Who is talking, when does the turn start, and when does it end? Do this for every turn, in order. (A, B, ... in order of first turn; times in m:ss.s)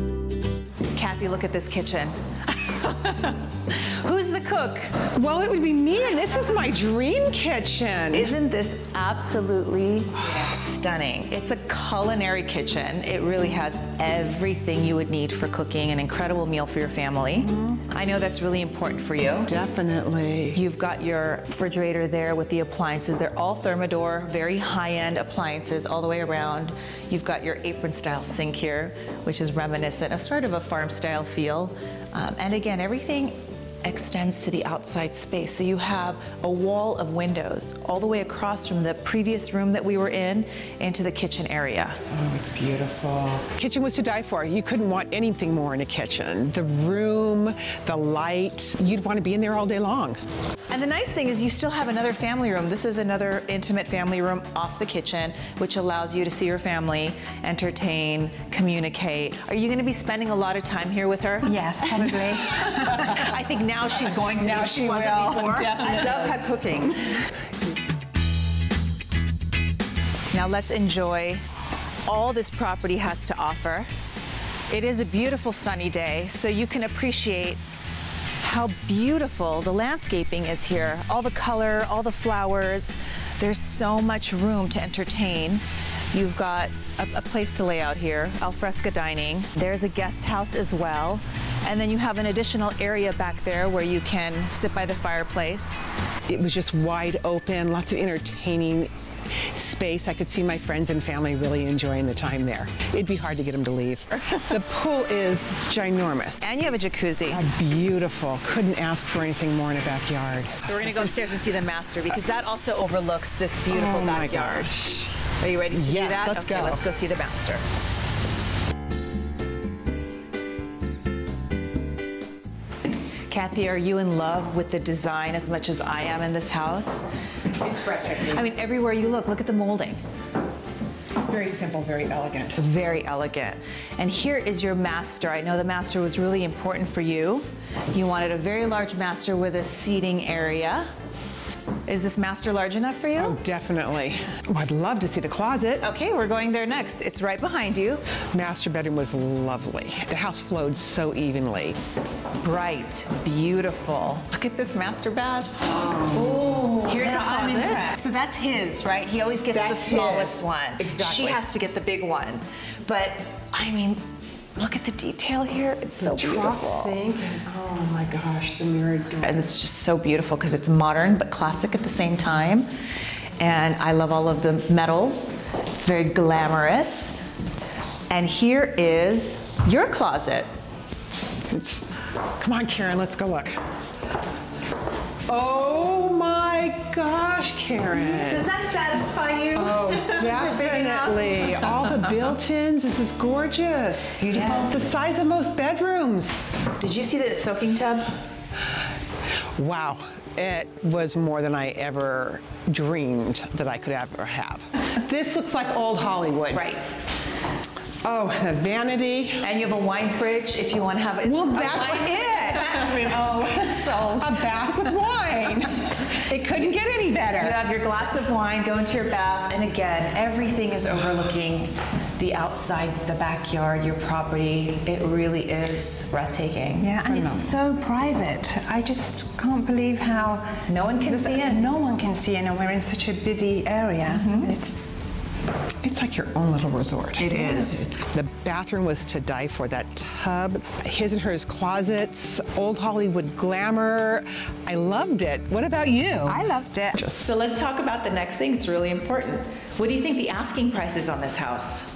0:00.9-0:05.0 A
0:05.1-0:08.4 B
0:08.1-0:19.5 A
0:19.5-0:20.6 B
0:20.5-0:42.0 A
0:42.1-0:50.2 B
0:50.7-1:07.2 A
1:01.4-1:03.3 C
1:04.2-1:06.4 B
1:05.8-1:06.9 C
1:10.3-1:11.4 A
1:12.1-1:13.9 A
1:14.7-1:17.6 A
1:18.4-1:35.8 A
1:36.3-1:46.4 B
1:46.4-1:47.5 A
1:47.3-1:51.1 B
1:50.6-1:54.7 A
1:53.7-1:55.2 B
1:55.4-1:57.6 A
1:55.7-1:56.8 B
2:03.3-2:07.1 A
2:07.6-2:08.5 B
2:08.2-2:10.0 A
2:11.2-2:12.6 B
2:12.6-2:20.9 A
2:21.9-2:23.4 A
2:23.1-2:25.9 B
2:25.8-2:28.1 A
2:28.3-2:31.8 B
2:32.4-2:35.7 A
2:35.7-2:36.9 B
2:36.2-2:37.9 C
2:36.7-2:44.0 A
2:39.5-2:41.4 B
2:44.6-2:47.0 A
2:46.0-2:49.5 B
2:49.2-2:52.7 A
2:53.4-2:57.3 A
2:58.1-3:00.5 A
3:01.4-3:03.6 B
3:05.3-3:08.5 B
3:08.0-3:12.3 A
3:09.6-3:16.3 B
3:14.2-3:14.9 A
3:16.8-3:18.2 A
3:19.4-3:26.7 B
3:26.5-3:27.0 A
3:28.0-3:29.5 B
3:29.4-3:33.7 A
3:31.2-3:37.6 B
3:32.8-3:34.3 C
3:37.4-3:46.9 A
3:46.8-3:55.0 C
3:47.0-3:47.6 B
3:50.7-3:51.7 A
3:54.1-3:54.5 A
3:55.8-4:07.3 B
3:57.2-3:58.0 A
4:06.3-4:07.0 C
4:07.1-4:11.9 A